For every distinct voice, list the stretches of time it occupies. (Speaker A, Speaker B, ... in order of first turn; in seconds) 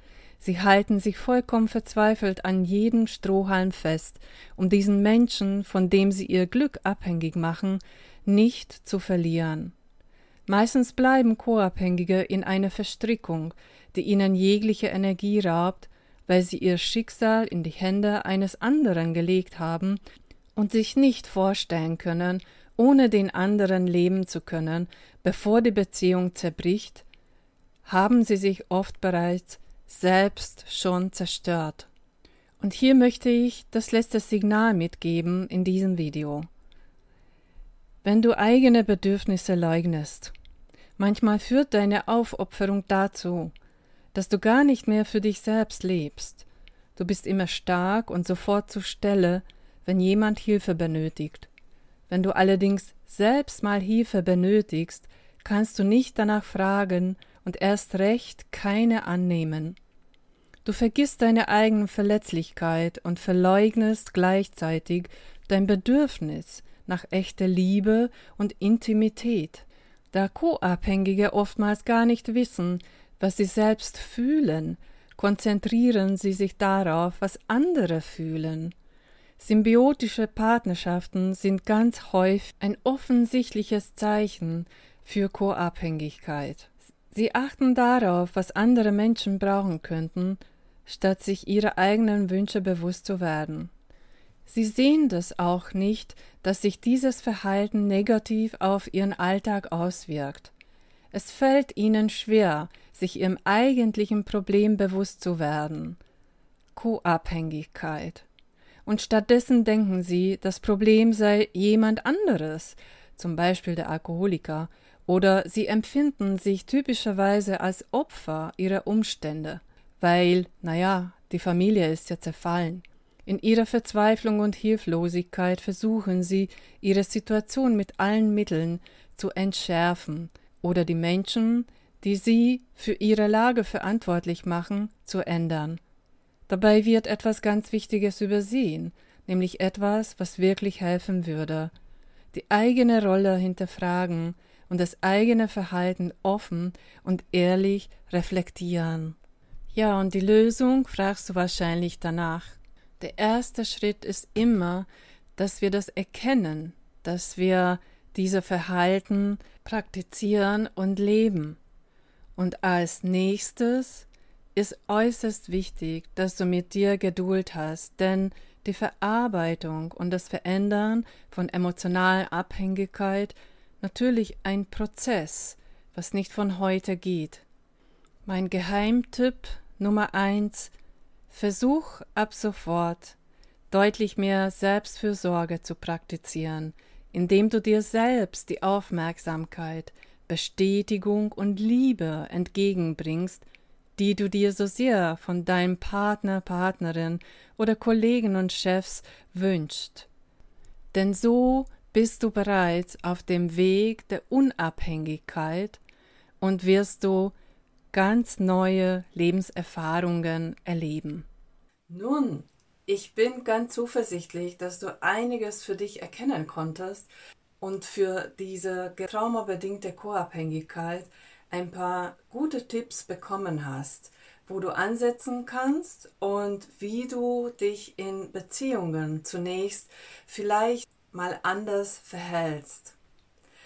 Speaker A: 0.4-9.7, 10.5-20.0, 20.6-27.0, 27.8-31.9, 32.6-36.5, 38.0-40.3, 41.0-43.5, 44.1-51.5, 52.1-59.8, 60.6-78.7, 79.4-93.7, 94.5-100.5, 101.1-106.0, 106.7-108.2, 108.8-135.8, 136.5-141.7, 142.3-149.2, 149.7-161.6, 162.4-177.4, 178.2-180.7, 181.3-183.2, 183.7-200.1, 200.9-205.8, 206.4-207.3, 207.9-211.2, 211.9-217.1, 217.6-232.9